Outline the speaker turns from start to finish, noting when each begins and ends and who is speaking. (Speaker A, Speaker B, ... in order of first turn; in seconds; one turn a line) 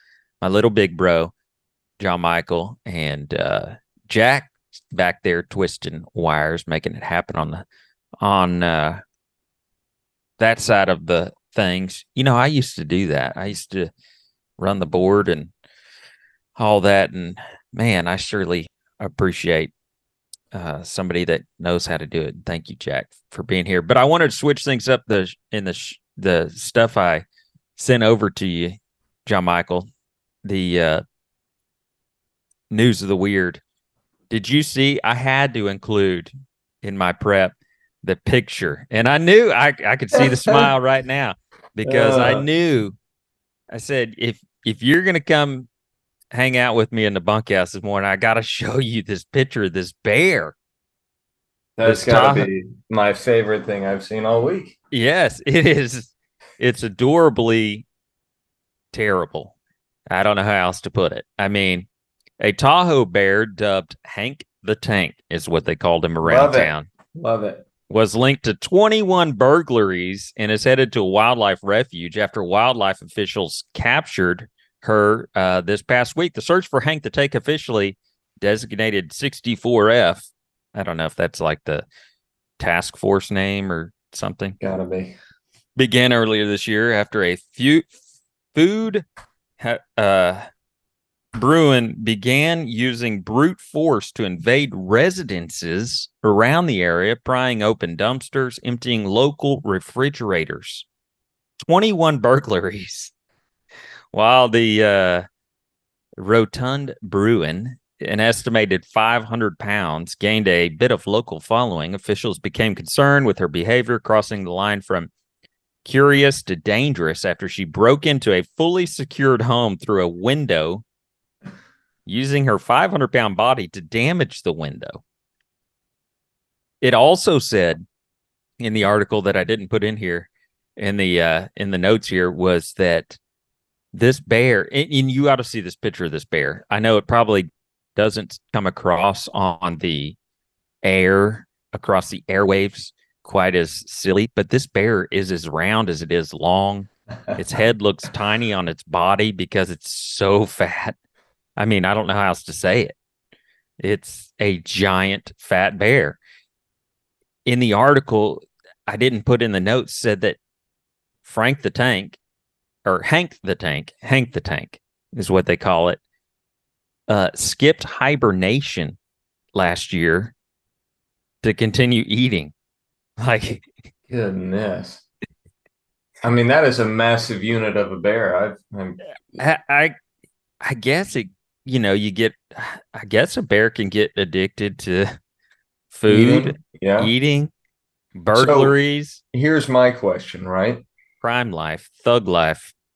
Speaker A: 0.4-1.3
Speaker A: 2.0-7.6
Speaker A: 8.2-9.0
Speaker A: 10.4-13.9
Speaker A: 14.6-15.5
Speaker A: 16.6-19.7
Speaker A: 20.5-27.2
Speaker A: 27.8-29.9
Speaker A: 30.4-31.0
Speaker A: 32.7-33.6
Speaker A: 34.3-36.3
Speaker A: 36.8-43.0
Speaker B: 40.1-40.7
Speaker B: 41.9-42.5
Speaker A: 43.7-45.7
Speaker A: 46.3-50.5
Speaker B: 51.8-54.8
Speaker A: 51.8-52.5
Speaker A: 54.9-57.9
Speaker A: 58.9-59.5
Speaker A: 60.1-61.9
Speaker A: 62.4-66.9
Speaker B: 66.2-67.7
Speaker A: 67.9-81.8
Speaker A: 82.6-84.6
Speaker B: 84.6-85.2
Speaker A: 85.8-87.9
Speaker A: 88.5-89.0
Speaker A: 89.6-90.5
Speaker A: 91.4-100.9
Speaker A: 101.6-103.1
Speaker A: 104.1-105.3
Speaker A: 106.2-115.1
Speaker A: 115.8-120.8
Speaker A: 122.1-125.0
Speaker A: 126.8-127.8
Speaker A: 128.6-133.2
Speaker A: 133.9-140.2
Speaker A: 140.8-151.0
Speaker A: 151.6-152.9
Speaker A: 153.8-156.2
Speaker A: 157.5-160.4
Speaker A: 161.2-162.2
Speaker A: 162.8-166.0
Speaker A: 167.1-169.0
Speaker A: 169.5-170.3
Speaker A: 171.4-172.5
Speaker A: 173.2-173.7
Speaker B: 174.1-175.0
Speaker B: 176.2-179.0
Speaker A: 179.4-179.9
Speaker A: 180.6-185.2
Speaker A: 185.9-187.5
Speaker B: 186.1-187.1
Speaker A: 188.2-189.2
Speaker B: 188.3-188.7
Speaker B: 189.3-190.8
Speaker A: 191.2-192.7